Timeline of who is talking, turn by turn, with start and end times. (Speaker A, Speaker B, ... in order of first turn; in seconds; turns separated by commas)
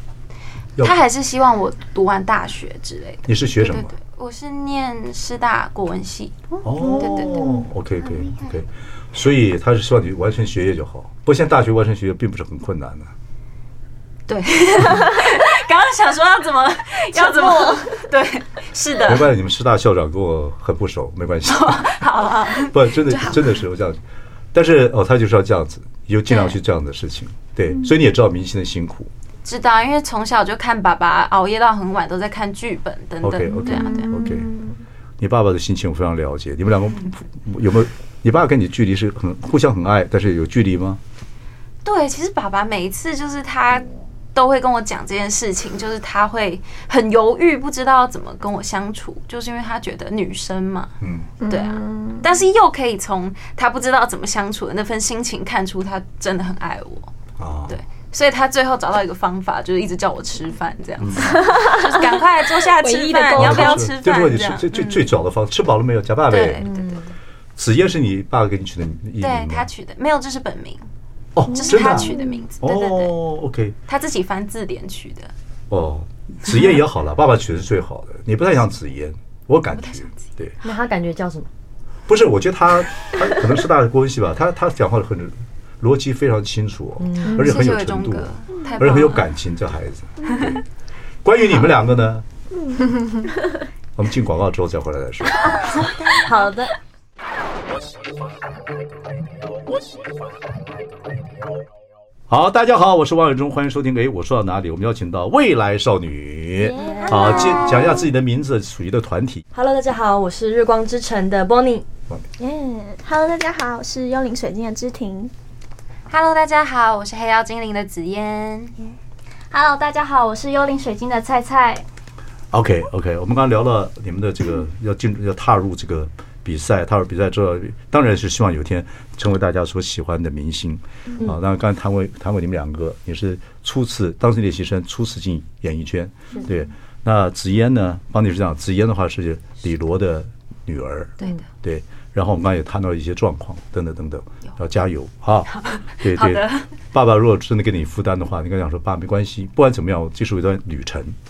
Speaker A: 0.8-6.4, Speaker B: 3.3-3.9, Speaker C: 6.6-7.4, Speaker B: 6.6-13.1, Speaker A: 7.0-7.4, Speaker A: 14.3-19.3, Speaker D: 17.2-17.9, Speaker B: 19.0-24.0, Speaker A: 21.5-23.6, Speaker B: 24.5-29.1, Speaker A: 26.3-26.6, Speaker A: 29.4-34.1, Speaker B: 33.2-34.5, Speaker D: 33.5-34.8, Speaker B: 35.2-41.0, Speaker A: 41.8-57.1, Speaker B: 51.0-51.3, Speaker D: 51.4-52.2, Speaker B: 57.4-57.8, Speaker A: 57.7-65.1, Speaker B: 61.0-61.2, Speaker D: 61.2-63.9, Speaker B: 63.4-66.6, Speaker A: 66.3-67.0, Speaker E: 66.6-67.1, Speaker B: 67.6-69.7, Speaker A: 69.2-70.8, Speaker B: 71.4-73.8, Speaker D: 71.5-72.4, Speaker A: 71.5-73.1, Speaker A: 73.9-75.3, Speaker B: 75.7-80.5, Speaker A: 79.8-80.2, Speaker E: 80.6-81.5, Speaker B: 82.1-90.6, Speaker E: 87.0-87.5, Speaker A: 87.3-89.3, Speaker B: 91.2-92.2, Speaker B: 94.0-95.8, Speaker E: 96.1-96.7, Speaker B: 102.3-109.4, Speaker D: 106.6-108.0, Speaker E: 106.8-107.6, Speaker E: 109.5-111.9, Speaker D: 112.4-115.3, Speaker A: 116.1-118.8, Speaker C: 119.5-121.8, Speaker B: 122.5-151.2, Speaker A: 145.5-146.7